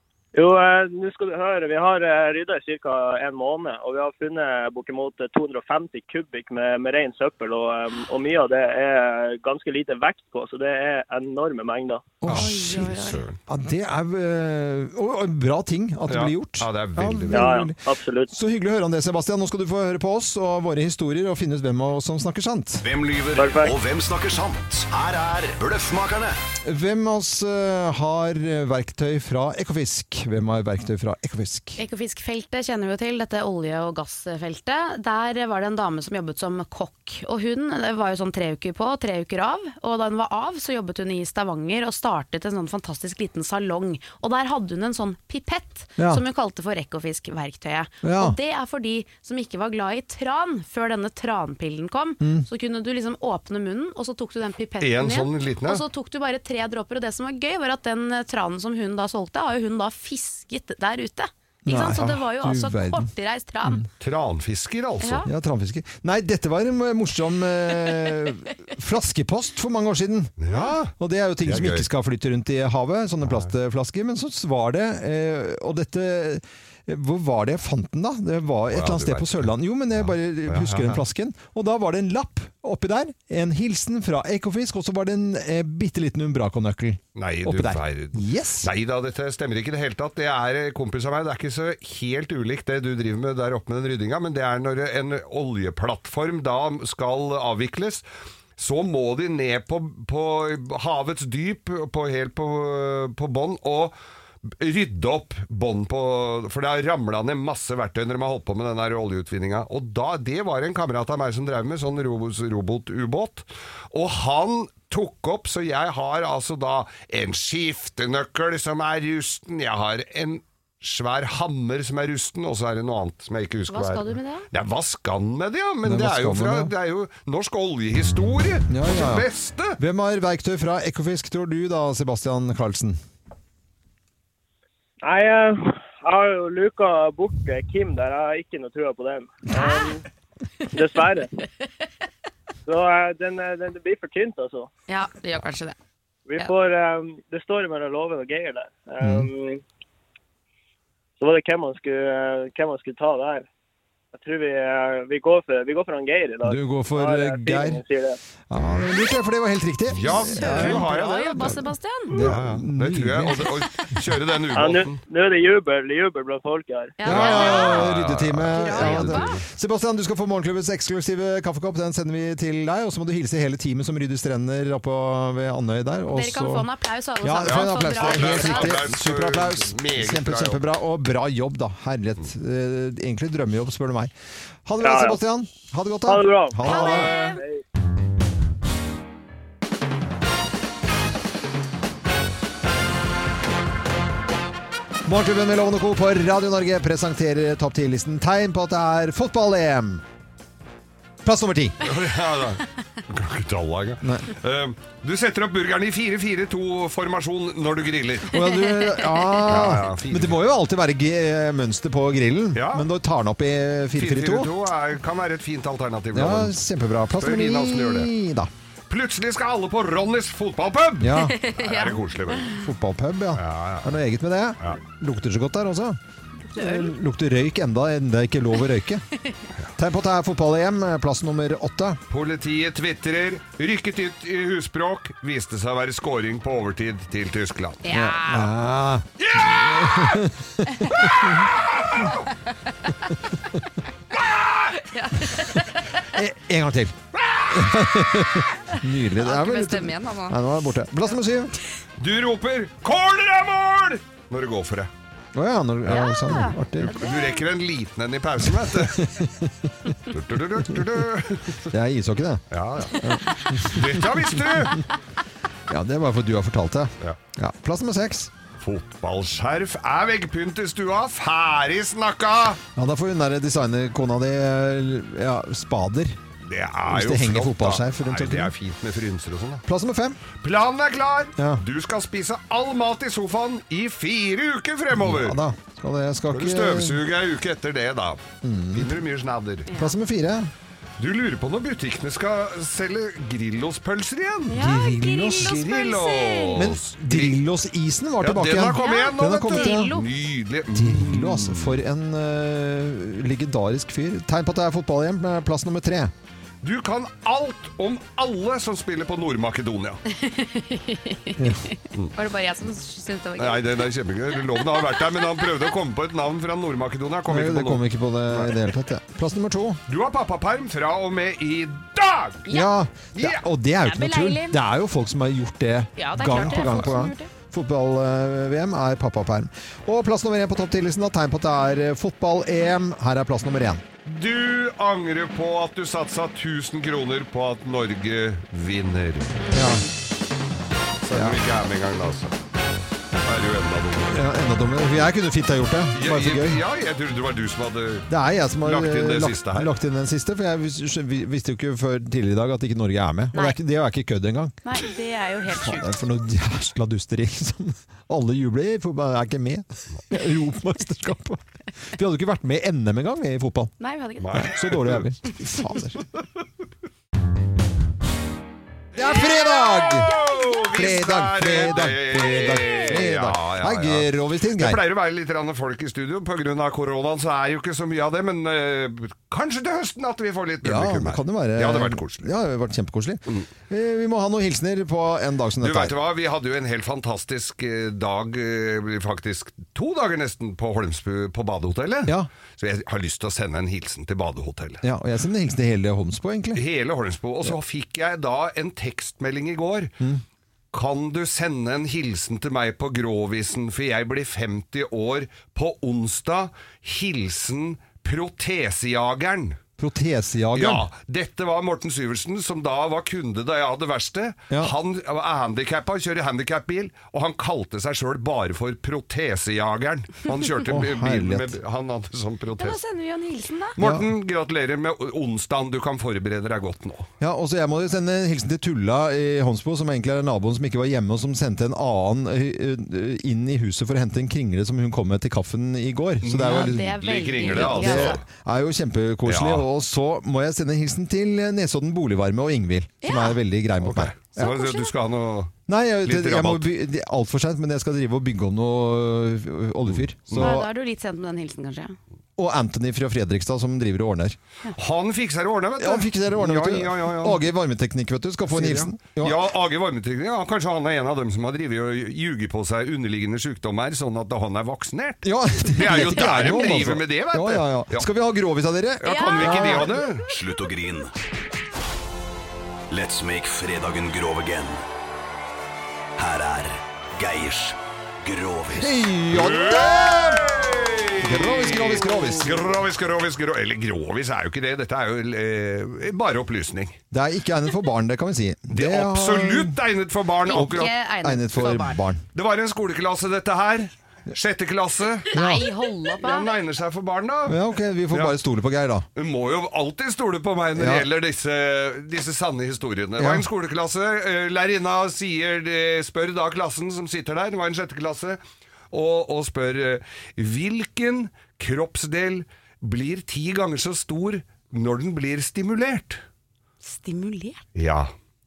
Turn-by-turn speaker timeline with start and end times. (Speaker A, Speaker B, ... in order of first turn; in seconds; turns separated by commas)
Speaker A: 0.3-12.1, Speaker B: 12.2-12.9, Speaker C: 12.3-13.4, Speaker D: 12.3-13.2, Speaker B: 13.5-17.8, Speaker C: 16.1-17.5, Speaker A: 17.3-18.3, Speaker B: 18.3-22.9, Speaker E: 22.8-26.4, Speaker A: 23.4-23.7, Speaker B: 26.6-31.8, Speaker D: 31.8-63.8, Speaker B: 46.0-46.2, Speaker B: 48.0-48.4, Speaker B: 52.2-52.5, Speaker C: 54.8-55.8, Speaker B: 61.6-63.1, Speaker C: 64.0-65.3, Speaker D: 65.0-65.3, Speaker B: 65.2-70.3, Speaker C: 70.4-71.9, Speaker B: 70.9-88.7, Speaker C: 78.7-81.0, Speaker C: 87.2-98.0, Speaker C: 98.6-103.9, Speaker C: 104.6-129.8, Speaker D: 123.7-124.5, Speaker B: 125.8-126.7, Speaker B: 128.7-133.0, Speaker A: 135.0-140.0, Speaker D: 139.5-139.9, Speaker A: 140.7-141.3, Speaker A: 142.7-144.7, Speaker D: 144.9-145.7, Speaker A: 146.3-149.6, Speaker B: 149.0-149.3, Speaker A: 151.2-153.5, Speaker A: 154.1-158.2, Speaker B: 156.4-157.8, Speaker B: 158.5-160.9, Speaker C: 159.9-165.0, Speaker D: 160.0-162.2, Speaker B: 162.1-164.0, Speaker A: 164.5-167.0, Speaker D: 167.0-167.9, Speaker B: 167.0-176.7, Speaker C: 167.0-169.4, Speaker D: 168.5-169.3, Speaker D: 176.1-178.8, Speaker B: 177.2-184.1, Speaker C: 177.4-180.6, Speaker B: 184.7-187.3, Speaker A: 184.8-185.2, Speaker A: 186.0-187.6, Speaker D: 186.6-187.4, Speaker B: 195.1-200.0, Speaker B: 201.2-201.9, Speaker C: 201.8-208.4, Speaker B: 204.0-204.3, Speaker B: 208.3-214.5, Speaker D: 209.0-209.3, Speaker C: 209.4-210.4, Speaker C: 212.5-212.9, Speaker C: 213.9-216.6, Speaker B: 216.1-218.5, Speaker C: 217.2-218.1, Speaker C: 218.9-222.5, Speaker B: 221.0-221.4, Speaker D: 221.2-222.6, Speaker B: 222.5-226.0, Speaker C: 223.3-223.9, Speaker D: 226.5-226.9, Speaker B: 226.6-229.0, Speaker B: 229.8-232.0, Speaker C: 232.1-237.8, Speaker D: 237.8-238.5, Speaker B: 237.9-240.4, Speaker C: 239.2-240.2, Speaker C: 240.8-242.3, Speaker C: 244.1-244.7, Speaker D: 244.7-246.1, Speaker B: 246.1-251.6, Speaker C: 247.2-247.7, Speaker D: 248.7-250.4, Speaker C: 252.0-254.9, Speaker B: 255.3-257.1, Speaker D: 255.9-257.4, Speaker C: 256.8-259.0, Speaker B: 258.4-259.7, Speaker C: 260.1-261.6, Speaker B: 261.7-262.4, Speaker C: 262.5-264.8, Speaker B: 262.9-264.2, Speaker B: 265.7-268.3, Speaker C: 268.6-272.6, Speaker B: 272.8-276.2, Speaker C: 276.4-279.6, Speaker B: 276.9-278.5, Speaker B: 279.6-280.2, Speaker C: 280.4-285.4, Speaker B: 281.4-281.6, Speaker B: 284.9-287.0, Speaker C: 286.3-288.2, Speaker B: 288.4-289.0, Speaker C: 288.7-289.7, Speaker D: 289.7-289.9, Speaker B: 289.7-290.5, Speaker C: 291.0-294.6, Speaker D: 294.5-296.7, Speaker B: 294.5-295.6, Speaker C: 295.3-297.4, Speaker B: 296.6-299.9, Speaker C: 298.2-301.8, Speaker D: 298.7-300.1, Speaker B: 300.7-306.1, Speaker C: 306.6-310.0, Speaker D: 310.1-313.8, Speaker B: 311.4-311.6, Speaker C: 313.4-318.6, Speaker D: 314.4-315.4, Speaker B: 317.3-319.8, Speaker C: 319.9-322.5, Speaker B: 322.5-333.8, Speaker C: 323.1-323.4, Speaker D: 323.8-324.6, Speaker D: 326.0-327.3, Speaker C: 334.1-339.4, Speaker D: 339.4-339.9, Speaker B: 339.5-339.8, Speaker C: 341.0-342.3, Speaker B: 341.1-341.4, Speaker C: 343.2-344.2, Speaker B: 344.1-346.6, Speaker C: 345.9-348.1, Speaker B: 348.1-354.5, Speaker C: 348.6-349.7, Speaker D: 354.6-356.0, Speaker B: 355.6-363.7, Speaker D: 363.8-364.5, Speaker C: 364.2-365.0, Speaker B: 364.3-366.0, Speaker B: 368.9-370.1, Speaker D: 369.1-370.6, Speaker C: 369.7-382.3, Speaker B: 370.7-374.8, Speaker B: 380.6-385.9, Speaker C: 385.6-394.8, Speaker B: 394.8-396.6, Speaker C: 396.5-399.9, Speaker C: 400.7-409.6, Speaker B: 409.8-410.9, Speaker C: 410.5-422.8, Speaker B: 420.7-421.6, Speaker D: 422.6-423.8, Speaker B: 423.8-424.1, Speaker C: 423.8-427.1, Speaker B: 427.2-444.1, Speaker C: 436.2-438.2, Speaker D: 436.4-438.2, Speaker C: 439.3-439.6, Speaker D: 443.0-443.4, Speaker C: 443.8-446.7, Speaker D: 444.4-444.9, Speaker B: 445.7-450.7, Speaker C: 449.9-450.6, Speaker D: 450.3-452.0, Speaker B: 452.4-454.4, Speaker C: 454.8-457.4, Speaker B: 455.8-459.4, Speaker C: 458.5-468.1, Speaker B: 465.2-470.0, Speaker C: 469.0-470.3, Speaker D: 469.0-469.9, Speaker E: 470.3-471.1, Speaker E: 472.9-474.8, Speaker E: 476.1-479.0, Speaker B: 478.7-480.5, Speaker C: 479.3-487.0, Speaker B: 481.2-482.7, Speaker B: 487.1-489.8, Speaker C: 488.7-490.9, Speaker D: 490.5-492.0, Speaker B: 490.5-492.2, Speaker C: 492.3-495.3, Speaker D: 495.3-496.5, Speaker B: 495.3-495.7, Speaker C: 496.2-497.6, Speaker B: 497.4-499.1, Speaker C: 498.1-498.4, Speaker C: 499.1-508.4, Speaker B: 500.7-501.1, Speaker B: 503.2-503.4, Speaker C: 508.9-516.2, Speaker D: 516.8-517.6, Speaker C: 517.7-518.1